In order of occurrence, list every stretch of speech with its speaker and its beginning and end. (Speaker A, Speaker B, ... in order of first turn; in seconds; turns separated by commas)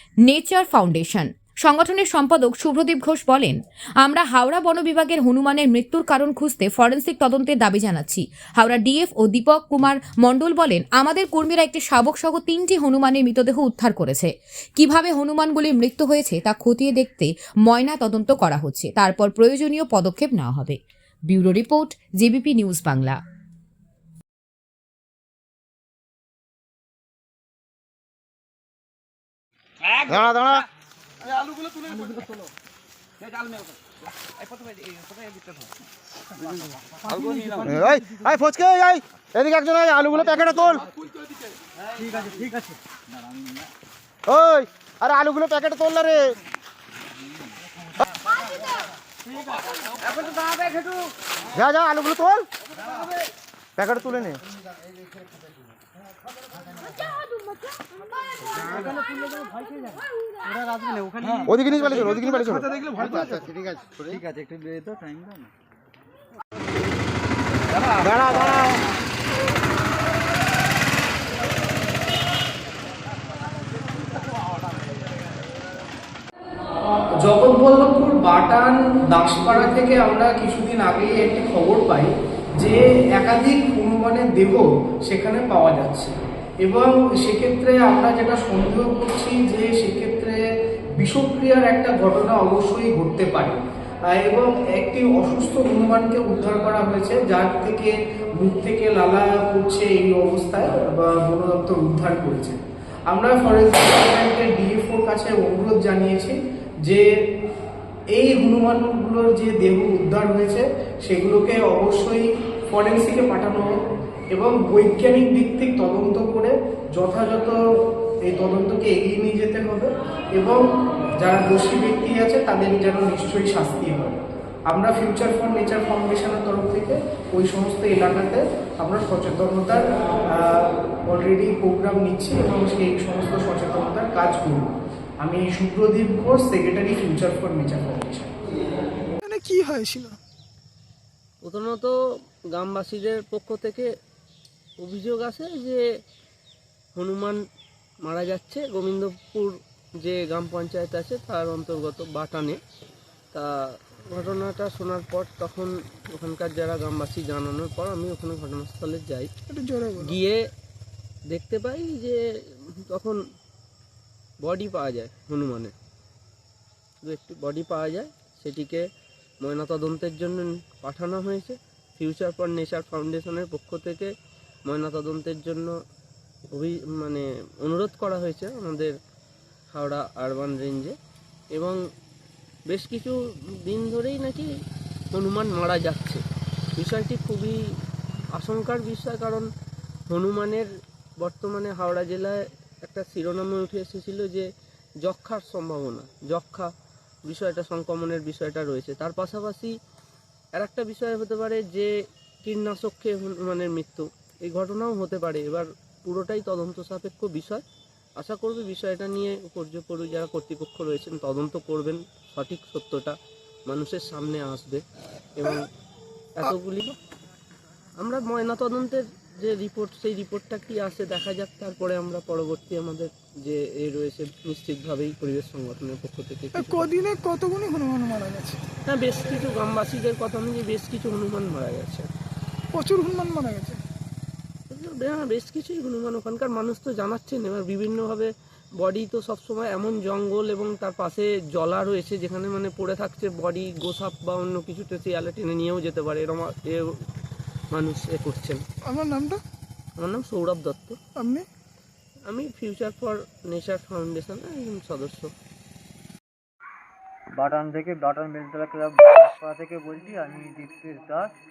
Speaker A: 0.2-23.2, Speaker B: 30.0-30.7, Speaker B: 37.4-40.9, Speaker B: 44.3-46.4, Speaker B: 51.5-52.5, Speaker B: 53.8-54.4, Speaker B: 61.3-63.5, Speaker B: 67.9-68.8, Speaker C: 77.2-90.4, Speaker C: 91.0-107.0, Speaker C: 108.1-113.8, Speaker C: 114.3-117.6, Speaker C: 118.2-120.7, Speaker C: 121.2-134.7, Speaker C: 135.2-138.4, Speaker D: 139.2-140.2, Speaker E: 141.4-141.9, Speaker E: 142.5-143.9, Speaker E: 144.8-145.8, Speaker E: 147.0-147.4, Speaker E: 148.0-152.6, Speaker E: 153.3-159.3, Speaker D: 159.5-160.2, Speaker E: 160.0-160.4, Speaker E: 161.3-163.2, Speaker E: 164.4-165.7, Speaker E: 167.0-168.9, Speaker E: 169.4-174.1, Speaker E: 174.7-175.8, Speaker E: 176.5-178.9, Speaker E: 179.7-180.9, Speaker E: 181.5-181.8, Speaker E: 182.7-184.5, Speaker E: 185.1-186.2, Speaker E: 186.8-187.6, Speaker E: 188.4-189.5, Speaker E: 190.1-190.7, Speaker E: 191.2-194.5, Speaker E: 195.0-196.7, Speaker E: 197.3-199.7, Speaker E: 200.6-201.9, Speaker E: 202.4-207.6, Speaker E: 208.2-213.2, Speaker E: 213.7-214.8, Speaker E: 215.4-215.6, Speaker E: 216.4-216.9, Speaker D: 216.4-216.9, Speaker E: 218.0-226.9, Speaker D: 226.6-228.6, Speaker E: 228.9-232.1, Speaker D: 232.7-233.8, Speaker E: 234.7-246.9, Speaker E: 247.7-248.6, Speaker D: 248.8-249.4, Speaker E: 250.0-251.0, Speaker D: 251.2-251.5, Speaker E: 252.3-255.3, Speaker F: 257.4-261.3